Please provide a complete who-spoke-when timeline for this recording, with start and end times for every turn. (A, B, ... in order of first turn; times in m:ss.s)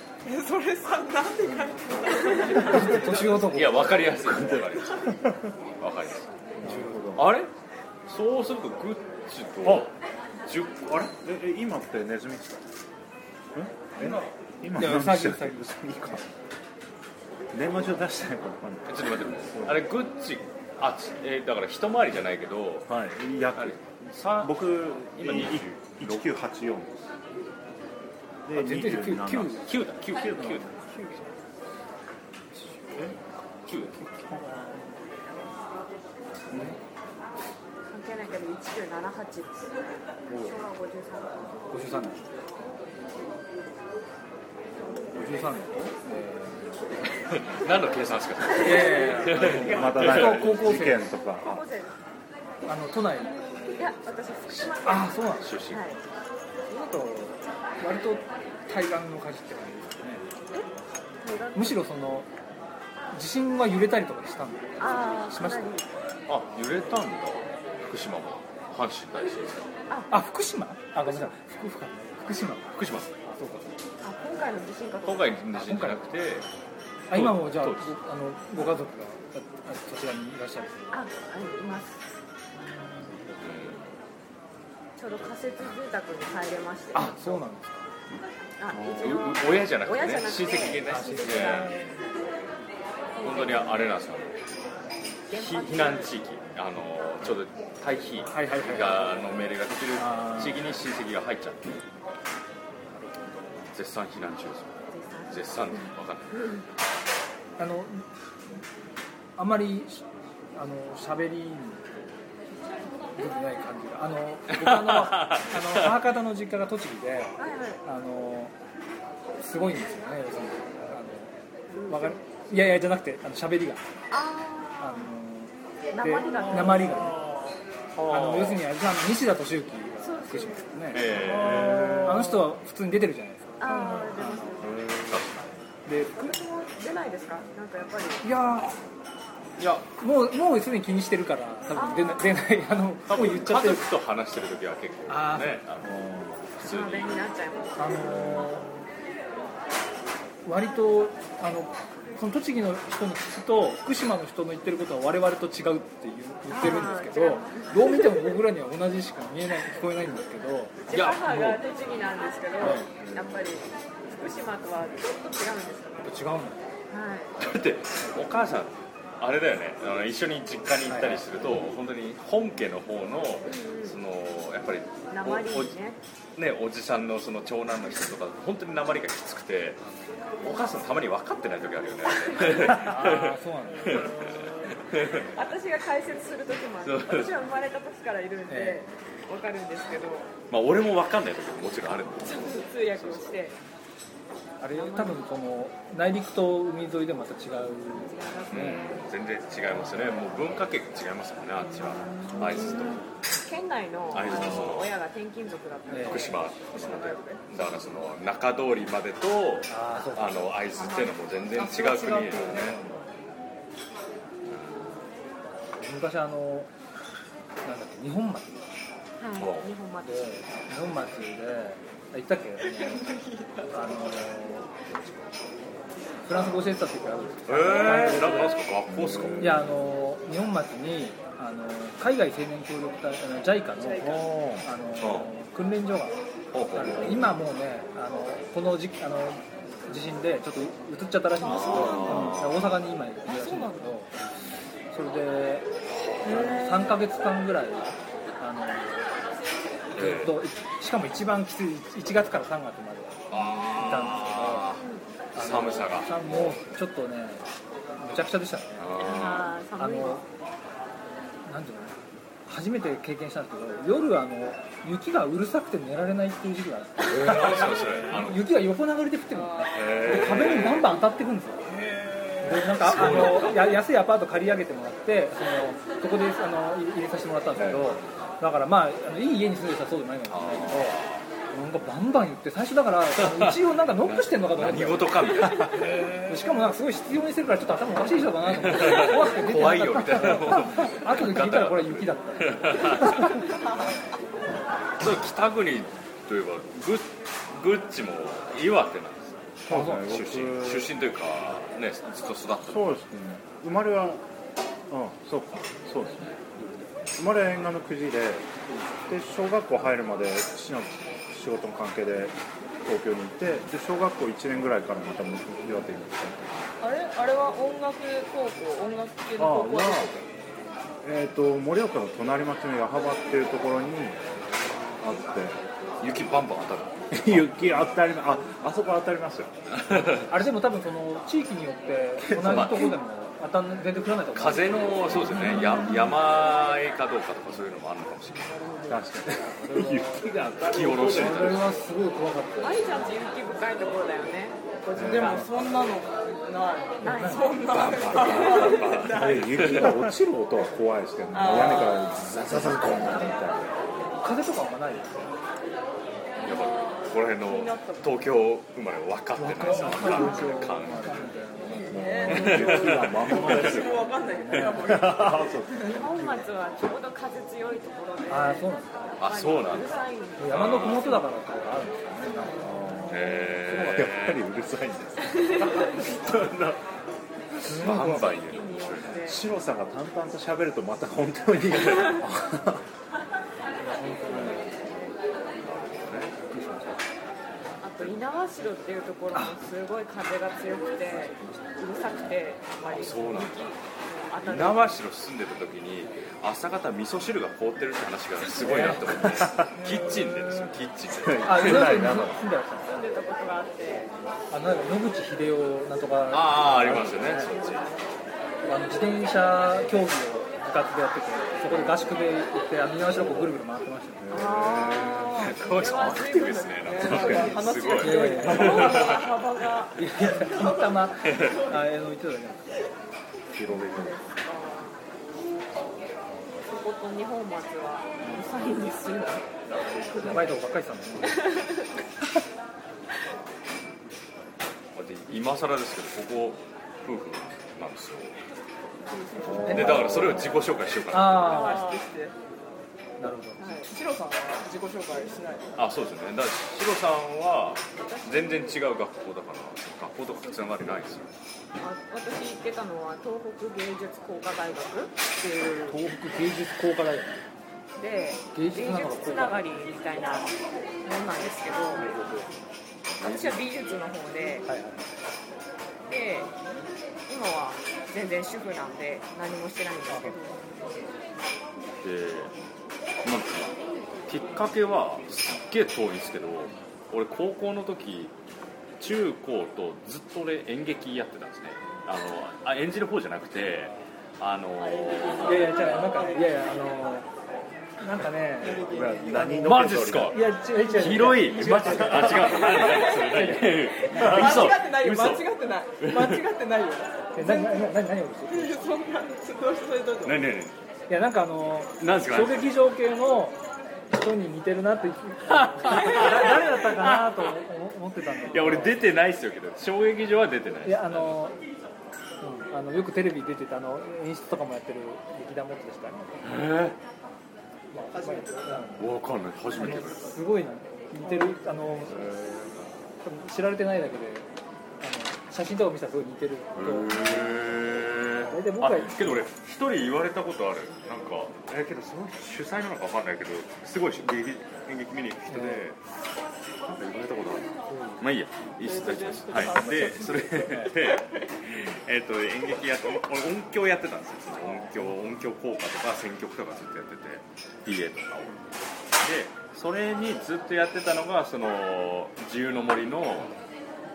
0:00.2-0:03.4 A
0:02.4-0:04.2 B
0:03.4-0:05.2 C
0:04.2-0:05.5 D
0:05.8-0:06.3 C
0:06.6-0:07.3 D
0:06.6-0:07.1 B
0:07.2-0:07.5 C
0:08.1-0:11.0 C
0:09.6-0:09.9 D
0:10.9-0:12.6 D
0:13.5-0:16.2 D
0:14.8-0:16.2 B
0:17.5-0:19.9 D
0:18.9-0:22.9 C
0:22.9-0:27.0 D
0:23.6-0:26.3 C
0:28.5-0:30.7 D
0:28.6-0:29.7 B
0:28.7-0:30.7 C
0:33.0-0:34.4 C
0:34.3-0:34.6 D
0:36.5-0:36.8 B
0:37.8-0:39.7 E
0:40.3-0:40.6 D
0:40.3-0:41.7 E
0:41.7-0:42.2 B
0:45.1-0:46.9 B
0:47.2-0:50.6 C
0:48.6-0:51.1 B
0:49.4-0:51.6 D
0:51.4-0:51.9 E
0:52.7-0:53.4 B
0:53.8-0:56.0 E
0:54.8-0:55.5 B
0:55.4-0:55.8 C
0:56.7-1:00.2 B
1:01.2-1:01.8 E
1:01.6-1:02.3 B
1:03.1-1:05.6 B
1:04.8-1:05.9 E
1:06.3-1:09.7 C
1:10.1-1:13.7 B
1:11.1-1:11.3 E
1:12.8-1:13.1 C
1:14.0-1:15.4 E
1:15.0-1:16.5 C
1:15.5-1:16.1 B
1:17.1-1:20.8 B
1:17.1-1:17.9 C
1:20.9-1:22.0 E
1:23.4-1:23.9 C
1:25.0-1:27.4 E
1:26.9-1:27.9 B
1:28.6-1:31.9 E
1:28.7-1:29.0 D
1:29.0-1:31.8 C
1:30.8-1:31.8 B
1:33.2-1:33.8 E
1:33.2-1:34.4 C
1:35.3-1:36.2 E
1:35.3-1:41.8 C
1:38.2-1:39.4 B
1:39.9-1:40.7 B
1:42.9-1:43.6 B
1:43.7-1:46.5 C
1:44.9-1:46.6 E
1:47.6-1:48.1 B
1:49.4-1:51.9 B
1:53.1-1:58.5 B
1:54.5-1:56.0 C
1:57.4-1:57.8 E
1:59.4-2:01.4 B
2:01.7-2:02.2 E
2:01.9-2:03.9 B
2:04.1-2:05.1 E
2:04.8-2:07.2 B
2:05.9-2:07.1 E
2:08.0-2:08.6 C
2:08.1-2:14.4 B
2:10.0-2:10.6 E
2:10.9-2:12.1 C
2:11.1-2:12.4 D
2:13.6-2:14.8 E
2:14.6-2:15.3 D
2:15.1-2:15.4 C
2:15.9-2:16.3 B
2:16.0-2:18.2 E
2:18.2-2:18.8 B
2:19.6-2:19.9 C
2:20.0-2:23.8 B
2:21.7-2:22.3 E
2:23.1-2:27.2 C
2:25.1-2:25.6 B
2:25.8-2:26.3 D
2:26.6-2:28.5 E
2:27.8-2:28.8 B
2:28.1-2:28.4 D
2:30.4-2:40.8 B
2:36.5-2:38.1 E
2:40.8-2:46.1 E
2:40.9-2:41.6 C
2:42.6-2:42.9 B
2:46.0-2:46.7 B
2:46.9-2:47.4 E
2:47.4-2:55.7 C
2:50.9-2:51.2 B
2:53.4-2:54.0 E
2:55.1-2:56.0 E
2:56.4-2:59.8 C
3:00.4-3:05.3 C
3:02.3-3:02.8 E
3:02.7-3:04.1 B
3:05.3-3:10.3 E
3:06.8-3:07.4 C
3:08.5-3:08.8 B
3:10.5-3:13.4 C
3:12.2-3:13.6 E
3:14.6-3:18.8 B
3:14.7-3:15.2 E
3:17.9-3:19.0 E
3:18.5-3:23.1 C
3:21.7-3:27.6 E
3:24.1-3:24.9 C
3:25.9-3:26.3 B
3:26.1-3:33.0 C
3:29.7-3:30.5 B
3:30.7-3:32.8 E
3:32.5-3:32.8 B
3:34.4-3:35.0 C
3:35.8-3:36.7 B
3:37.6-3:38.6 B
3:39.2-3:40.4 E
3:39.4-3:39.7 C
3:40.0-3:43.2 B
3:42.8-3:43.7 A
3:43.7-3:44.7 B
3:46.2-3:48.6 B
3:47.4-3:49.7 C
3:48.9-3:49.7 D
3:49.4-3:56.2 B
3:53.8-3:54.2 A
3:54.1-3:54.7 D
3:55.0-3:55.3 C
3:56.5-3:57.2 C
3:56.7-4:04.2 B
4:01.4-4:02.8 C
4:01.5-4:02.2 E
4:01.7-4:02.0 A
4:03.2-4:03.9 A
4:04.9-4:05.7 B
4:06.2-4:09.1 B
4:06.2-4:06.9 A
4:09.9-4:10.4 C
4:09.9-4:14.7 B
4:13.3-4:16.6 C
4:13.6-4:13.9 E
4:14.7-4:15.1 E
4:15.4-4:17.4 B
4:18.0-4:18.9 B
4:18.8-4:19.5 C
4:19.0-4:20.2 E
4:19.8-4:20.2 B
4:21.4-4:31.7 B
4:27.0-4:28.6 C
4:29.4-4:30.5 A
4:29.7-4:30.9 C
4:32.4-4:41.0 B
4:32.5-4:33.8 C
4:37.6-4:37.9 D
4:37.6-4:38.3 C
4:40.3-4:41.3 C
4:41.5-4:53.4 B
4:43.2-4:46.4 C
4:48.6-4:53.6 C
4:55.0-5:02.9 C
4:59.7-5:00.9 D
4:59.7-5:00.1 B
5:02.7-5:04.2 D
5:04.9-5:06.4 D
5:07.1-5:16.6 D
5:16.8-5:20.2 A
5:19.4-5:20.1 D
5:21.0-5:24.2 D
5:25.0-5:25.6 D
5:26.0-5:27.5 C
5:27.1-5:29.5 D
5:29.8-5:30.3 C
5:30.3-5:35.8 B
5:32.2-5:32.9 D
5:32.4-5:32.9 C
5:34.4-5:38.7 C
5:38.9-5:41.6 D
5:39.6-5:40.2 B
5:40.6-5:41.6 C
5:41.1-5:43.1 B
5:42.6-5:45.5 E
5:44.9-5:49.7 A
5:44.9-5:45.4 D
5:47.0-5:47.5 B
5:47.0-5:48.8 E
5:47.7-5:53.8 D
5:49.6-5:49.9 C
5:51.3-5:52.2 A
5:54.2-5:55.3 B
5:56.4-6:01.3 C
5:56.4-5:58.2 A
5:59.4-6:02.0 B
5:59.8-6:00.5 A
6:01.7-6:05.9 A
6:01.9-6:04.1 D
6:02.3-6:03.8 C
6:04.3-6:04.9 B
6:04.6-6:06.4 D
6:05.8-6:11.2 E
6:08.3-6:09.2 B
6:09.2-6:11.2 C
6:10.4-6:13.3 B
6:12.6-6:16.8 D
6:13.1-6:14.4 C
6:15.3-6:15.8 E
6:17.6-6:18.3 B
6:17.6-6:19.4 C
6:18.0-6:19.4 E
6:19.2-6:22.8 D
6:23.8-6:24.7 B
6:24.2-6:24.6 D
6:24.3-6:24.6 C
6:24.8-6:25.1 E
6:25.6-6:26.4 C
6:26.5-6:26.9 D
6:26.5-6:26.9 B
6:27.8-6:34.9 E
6:32.9-6:33.8 C
6:34.4-6:42.2 C
6:38.6-6:39.2 B
6:39.2-6:39.7 D
6:41.2-6:42.4 D
6:41.4-6:43.0 B
6:42.8-6:44.1 E
6:44.5-6:47.5 B
6:46.3-6:47.9 C
6:47.5-6:48.0 E
6:48.6-6:54.3 B
6:54.2-6:55.5 D
6:54.3-6:57.6 E
6:55.3-6:59.3 C
6:56.8-6:59.2 A
6:57.0-6:57.6 D
6:58.0-6:59.1 B
6:58.4-6:58.9 D
6:58.4-7:00.0 E
7:00.0-7:02.7 B
7:00.3-7:01.8 A
7:01.3-7:01.6 C
7:03.5-7:04.2 D
7:03.7-7:05.0 E
7:06.6-7:10.5 E
7:10.2-7:11.5 B
7:11.2-7:11.8 E
7:14.9-7:18.4 C
7:19.1-7:20.2 A
7:19.4-7:20.6 D
7:19.6-7:20.2 B
7:19.7-7:21.8 C
7:21.1-7:21.8 B
7:21.4-7:22.3 A
7:21.4-7:22.0 E
7:23.2-7:23.7 B
7:23.6-7:23.9 E
7:23.8-7:25.7 A
7:25.8-7:31.3 C
7:28.0-7:28.8 E
7:31.8-7:35.9 E
7:35.9-7:37.4 B
7:38.0-7:42.0 E
7:38.5-7:39.6 B
7:42.0-7:42.5 B
7:43.2-7:43.6 C
7:43.2-7:44.7 E
7:44.6-7:45.1 B
7:46.1-7:46.5 E
7:47.3-7:51.0 E
7:50.1-7:50.4 B
7:52.0-7:52.5 C
7:53.2-7:58.3 C
7:59.0-8:05.5 C
8:04.8-8:06.5 A
8:05.4-8:07.3 B
8:08.0-8:13.9 B
8:08.6-8:09.4 A
8:08.7-8:10.4 D
8:09.6-8:16.4 C
8:11.6-8:12.4 D
8:12.5-8:17.9 A
8:17.3-8:18.9 B
8:18.5-8:20.5 A
8:20.2-8:20.8 C
8:21.1-8:23.6 B
8:22.0-8:22.7 C
8:24.1-8:29.0 B
8:25.5-8:27.5 C
8:28.5-8:31.3 C
8:30.8-8:31.6 B
8:32.4-8:36.5 B
8:36.4-8:37.0 C
8:37.9-8:39.1 B
8:38.1-8:38.9 A
8:39.0-8:40.3 C
8:39.7-8:42.3 B
8:42.1-8:42.7 D
8:43.2-8:44.5 B
8:45.0-8:47.7 B
8:46.7-8:56.0 C
8:48.4-8:49.4 B
8:55.5-8:55.8 B
8:56.9-9:13.5 C
8:57.9-8:58.2 B
8:58.8-9:01.5 A
9:04.6-9:05.2 B